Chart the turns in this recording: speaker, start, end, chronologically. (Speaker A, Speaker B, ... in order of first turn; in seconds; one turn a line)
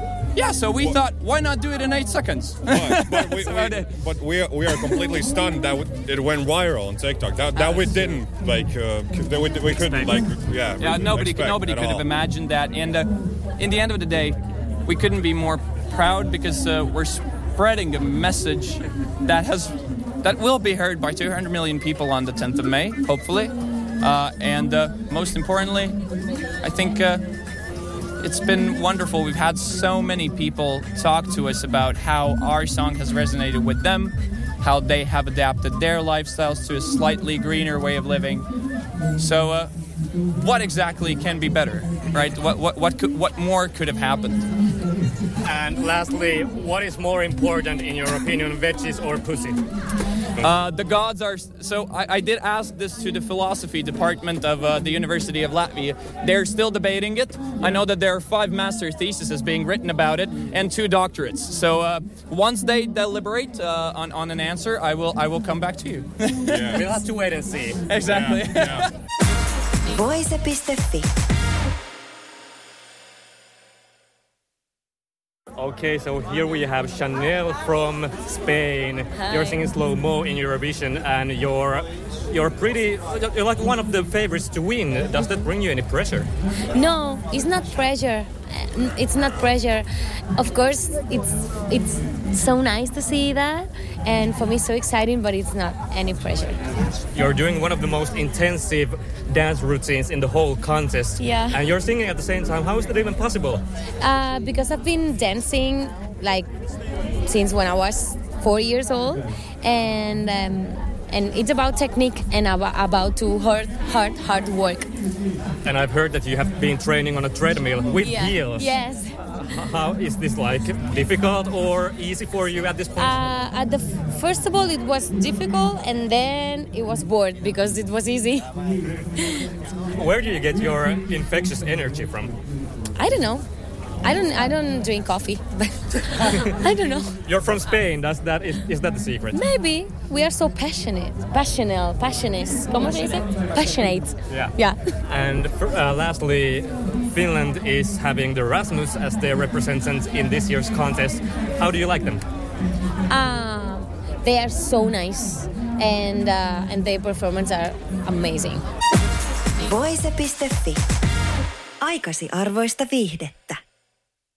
Speaker A: 0.3-4.0
Speaker B: 0.7-1.0
Speaker B: 2.6-12.1
Speaker A: 4.7-5.0
Speaker A: 7.5-8.0
Speaker C: 9.7-10.2
Speaker A: 10.8-26.0
Speaker A: 26.6-27.2
Speaker A: 28.2-38.5
Speaker A: 39.2-39.7
Speaker A: 40.4-44.5
Speaker C: 45.4-49.6
Speaker A: 50.4-67.0
Speaker B: 66.5-66.9
Speaker C: 66.7-67.8
Speaker A: 67.9-68.9
Speaker B: 68.0-68.9
Speaker D: 69.9-71.1
Speaker C: 75.6-86.3
Speaker E: 79.2-79.6
Speaker E: 86.7-96.5
Speaker C: 97.1-103.6
Speaker E: 101.2-101.6
Speaker E: 104.0-106.5
Speaker E: 107.2-114.9
Speaker C: 115.6-118.7
Speaker E: 118.0-119.1
Speaker C: 119.3-123.4
Speaker E: 123.0-128.5
Speaker E: 129.2-129.5
Speaker C: 130.0-132.3
Speaker E: 132.9-133.4
Speaker E: 134.0-137.2
Speaker C: 137.2-139.4
Speaker E: 139.3-144.9
Speaker C: 144.3-152.2
Speaker E: 153.1-158.6
Speaker D: 159.7-160.8
Speaker D: 161.8-163.6